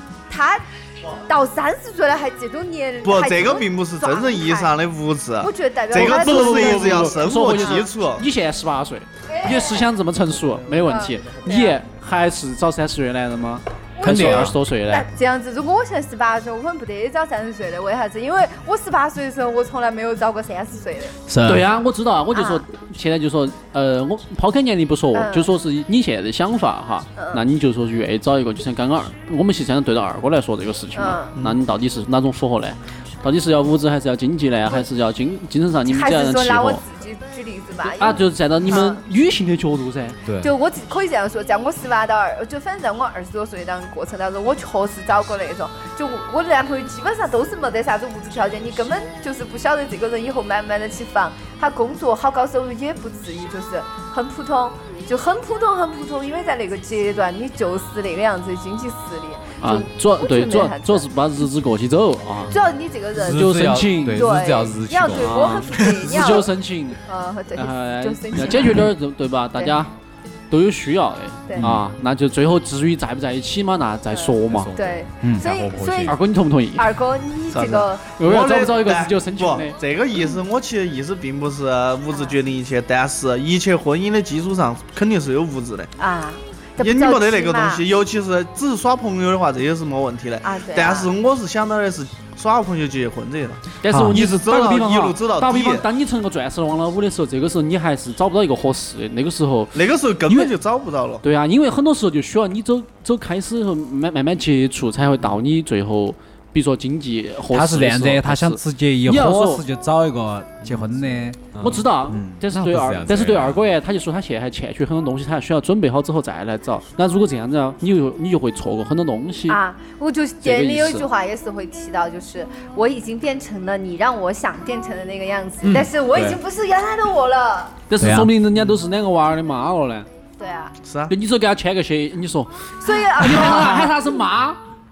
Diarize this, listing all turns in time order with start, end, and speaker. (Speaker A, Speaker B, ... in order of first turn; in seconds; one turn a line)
Speaker A: 0.3-4.7
Speaker B: 3.0-8.2
Speaker A: 5.4-7.9
Speaker C: 6.0-15.1
Speaker A: 9.3-9.9
Speaker A: 10.9-11.8
Speaker A: 14.0-21.2
Speaker D: 14.0-14.5
Speaker D: 21.3-21.7
Speaker C: 21.4-36.8
Speaker A: 22.3-22.6
Speaker A: 25.1-25.5
Speaker A: 27.1-27.4
Speaker A: 30.9-31.4
Speaker A: 35.9-39.0
Speaker C: 38.0-40.2
Speaker E: 40.2-40.5
Speaker A: 40.4-61.1
Speaker C: 59.6-62.6
Speaker A: 62.5-66.5
Speaker C: 63.2-64.3
Speaker E: 63.2-65.7
Speaker C: 65.2-67.0
Speaker A: 67.1-68.9
Speaker C: 67.6-69.9
Speaker A: 69.5-69.8
Speaker C: 70.5-74.7
Speaker A: 74.1-76.2
Speaker E: 74.5-76.2
Speaker D: 75.2-75.5
Speaker C: 76.1-77.0
Speaker A: 76.8-78.1
Speaker B: 77.5-85.9
Speaker C: 78.2-79.8
Speaker A: 86.0-87.8
Speaker B: 86.8-93.6
Speaker A: 90.4-91.1
Speaker C: 93.8-100.5
Speaker D: 93.9-94.2
Speaker B: 94.1-95.8
Speaker B: 99.7-101.2
Speaker C: 101.2-109.6
Speaker D: 107.5-111.4
Speaker E: 111.5-111.9
Speaker C: 111.6-119.6
Speaker D: 112.1-112.4
Speaker E: 112.5-113.6
Speaker A: 119.5-127.7
Speaker C: 120.4-121.1
Speaker E: 126.1-126.4
Speaker C: 127.9-130.1
Speaker D: 128.0-128.3
Speaker A: 130.4-130.7
Speaker B: 130.8-131.1
Speaker C: 131.1-134.6
Speaker A: 132.8-133.9